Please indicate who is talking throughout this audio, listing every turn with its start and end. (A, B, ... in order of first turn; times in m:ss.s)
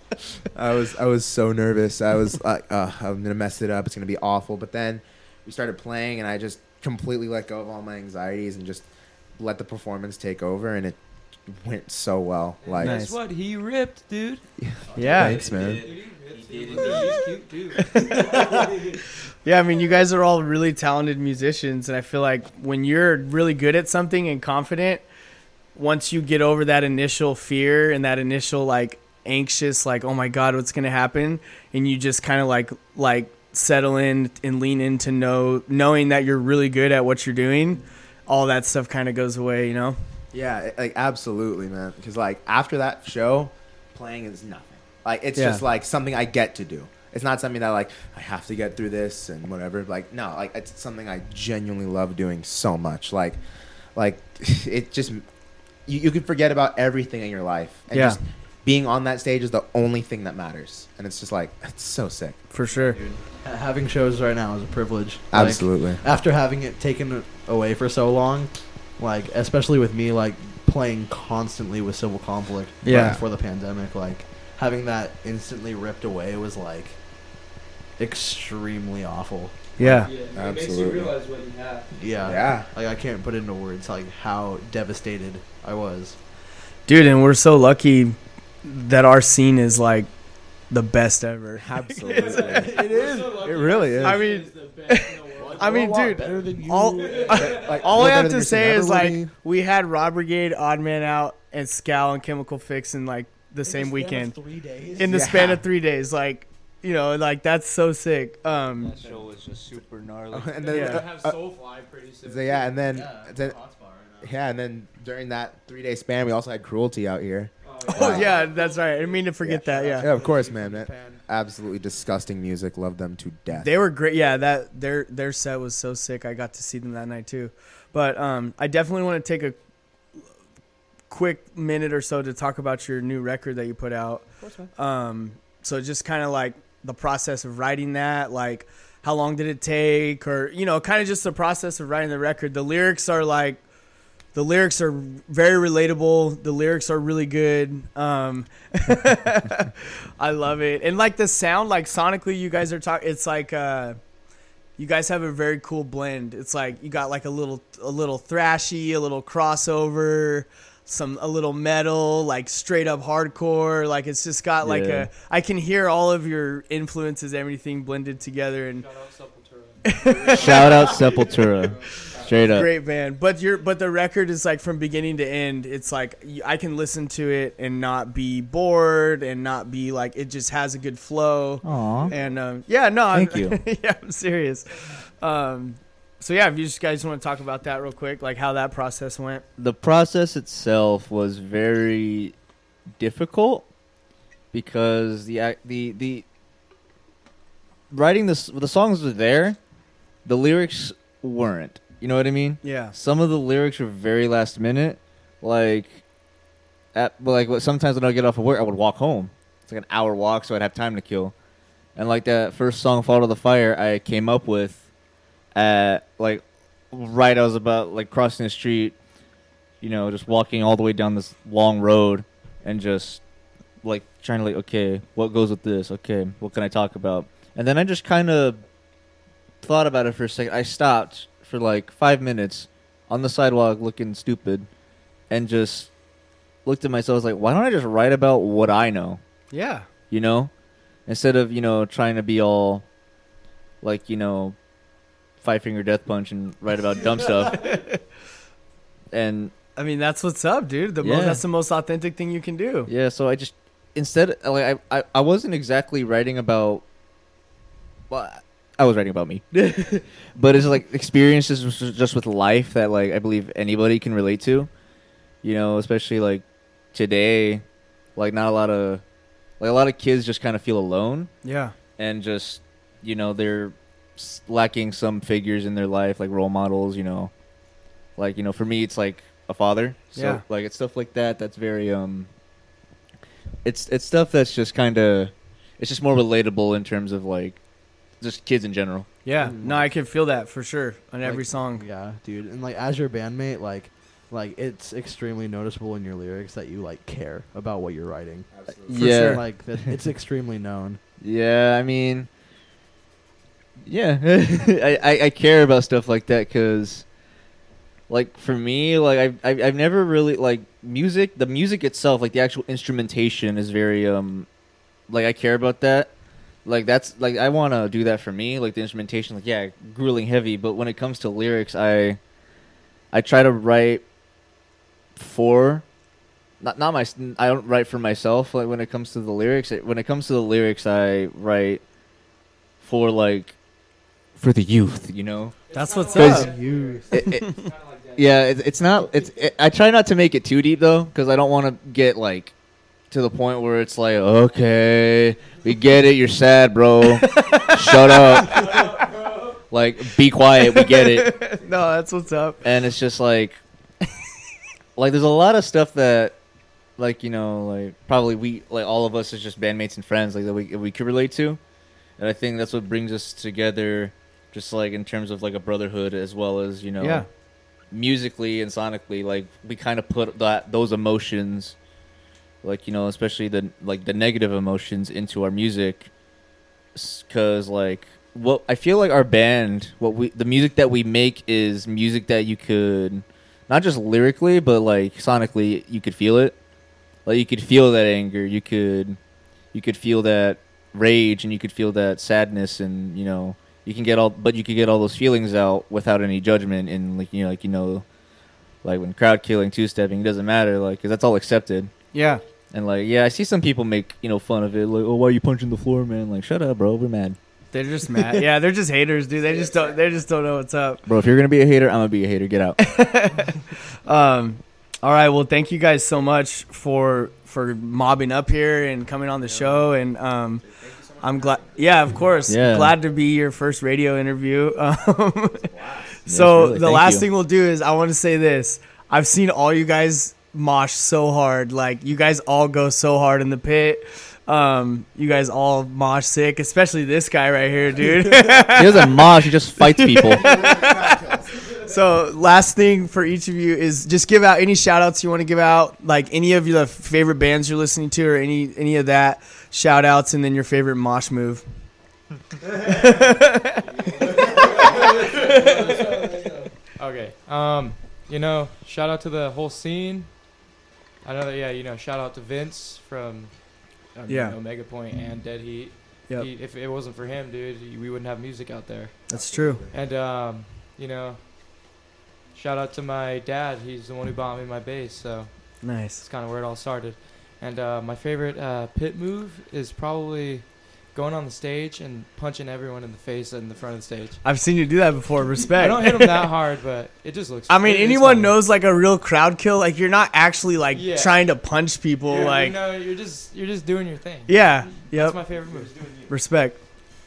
0:00.5-0:13.0 A
0:12.6-0:14.5 B
0:12.8-0:13.2 C
0:14.6-0:15.9 A
0:14.9-0:15.4 D
0:15.0-0:15.4 C
0:15.2-0:17.4 E
0:15.8-0:18.8 B
0:17.8-0:18.8 C
0:19.4-0:25.0 C
0:25.8-0:40.0 C
0:40.3-0:55.2 A
0:45.4-0:45.6 C
0:55.8-1:02.4 A
0:57.9-0:58.2 C
1:02.5-1:03.0 C
1:02.7-1:17.0 D
1:05.3-1:06.0 A
1:12.8-1:13.2 C
1:12.9-1:13.2 A
1:18.0-1:20.1 D
1:19.8-1:20.1 C
1:20.0-1:22.3 B
1:20.3-1:21.1 A
1:21.9-1:26.2 D
1:22.2-1:22.7 A
1:26.9-1:30.1 C
1:30.7-1:32.5 C
1:31.6-1:34.3 A
1:32.0-1:36.1 B
1:32.7-1:33.1 D
1:34.0-1:44.4 C
1:35.4-1:36.6 A
1:36.0-1:38.4 D
1:37.0-1:37.9 B
1:37.3-1:39.3 A
1:39.0-1:39.3 D
1:43.6-1:45.3 D
1:45.0-1:49.0 C
1:45.0-1:45.7 A
1:48.9-1:50.6 E
1:50.3-1:51.4 A
1:50.6-1:52.8 B
1:50.7-1:51.0 C
1:52.2-1:53.6 A
1:52.9-1:54.3 D
1:54.2-1:58.3 A
1:57.6-1:59.4 B
1:57.9-2:00.1 C
1:59.4-2:03.7 A
1:59.7-2:01.2 D
2:03.5-2:09.6 C
2:11.1-2:23.6 C
2:14.4-2:14.7 A
2:24.3-2:34.0 C
2:34.8-2:48.9 C
2:44.6-2:45.1 E
2:48.7-2:51.4 B
2:49.9-2:50.5 C
2:50.3-2:52.7 E
2:52.4-3:09.4 C
3:01.6-3:02.1 E
3:03.1-3:03.6 E
3:09.6-3:12.4 E
3:13.0-3:13.6 E
3:14.5-3:16.2 E
3:17.9-3:19.6 E
3:20.2-3:26.0 E
3:22.6-3:22.9 C
3:26.9-3:31.3 E
3:32.0-3:34.9 E
3:35.5-3:39.0 E
3:39.8-3:43.2 E
3:43.8-3:48.6 E
3:49.6-3:54.7 E
3:55.3-3:55.9 E
3:56.6-3:59.2 E
3:59.5-3:59.9 C
4:00.1-4:00.5 E
4:01.1-4:02.8 E
4:03.8-4:04.6 E
4:05.4-4:07.8 E
4:07.5-4:08.0 C
4:09.1-4:09.5 E
4:09.8-4:12.9 C
4:11.0-4:11.4 E
4:12.9-4:16.8 E
4:18.1-4:24.7 E
4:25.4-4:27.6 E
4:28.2-4:29.0 E
4:29.6-4:31.3 E
4:31.4-4:31.7 C
4:32.0-4:37.3 E
4:38.2-4:42.3 E
4:40.2-4:40.4 C
4:43.6-4:47.6 E
4:48.2-4:49.1 E
4:49.2-4:51.8 C
4:49.4-4:49.9 D
4:51.2-5:01.0 D
4:58.5-4:59.0 A
4:58.9-4:59.4 E
4:58.9-4:59.4 C
5:01.2-5:02.3 E
5:03.8-5:07.0 E
5:08.1-5:14.5 E
5:15.1-5:16.1 E
5:16.6-5:22.2 E
5:23.1-5:24.0 E
5:25.2-5:25.8 E
5:26.6-5:31.8 E
5:32.8-5:33.6 E
5:34.4-5:35.6 E
5:35.7-5:39.6 B
5:35.7-5:36.6 C
5:36.2-5:36.5 E
5:36.4-5:37.0 D
5:37.1-5:37.5 E
5:37.2-5:37.6 C
5:38.2-5:42.5 E
5:43.1-5:48.9 E
5:47.3-5:47.9 C
5:48.5-5:49.6 B
5:49.7-5:51.3 E
5:50.8-5:52.6 C
5:52.6-5:53.6 E
5:55.0-5:56.4 E
5:57.0-6:01.6 E
6:02.2-6:07.3 E
6:07.0-6:07.3 C
6:07.9-6:11.8 E
6:12.6-6:16.1 E
6:17.0-6:26.6 E
6:27.2-6:29.2 E
6:29.7-6:38.0 E
6:38.8-6:41.9 E
6:42.1-6:42.4 C
6:42.7-6:47.4 E
6:47.7-6:51.0 C
6:49.4-6:50.0 A
6:51.0-6:52.9 E
6:52.8-7:00.6 C
7:00.6-7:02.4 A
7:01.2-7:05.6 C
7:02.5-7:03.0 E
7:05.5-7:06.2 A
7:06.3-7:19.1 C
7:06.3-7:07.3 E
7:18.0-7:18.5 D
7:18.8-7:20.4 E
7:20.0-7:21.1 C
7:20.2-7:21.7 A
7:21.8-7:31.6 C
7:33.0-7:33.6 C
7:33.8-7:40.5 B
7:41.2-7:49.2 B
7:44.3-7:44.6 C
7:49.3-7:49.8 C
7:49.3-7:50.0 A
7:49.9-7:51.4 B
7:52.5-8:04.4 B
7:55.8-7:56.2 C
8:04.4-8:06.5 C
8:05.7-8:08.6 B
8:07.7-8:12.8 C
8:10.9-8:11.5 B
8:12.3-8:16.3 B
8:14.5-8:15.4 C
8:15.8-8:16.2 A
8:16.3-8:16.8 C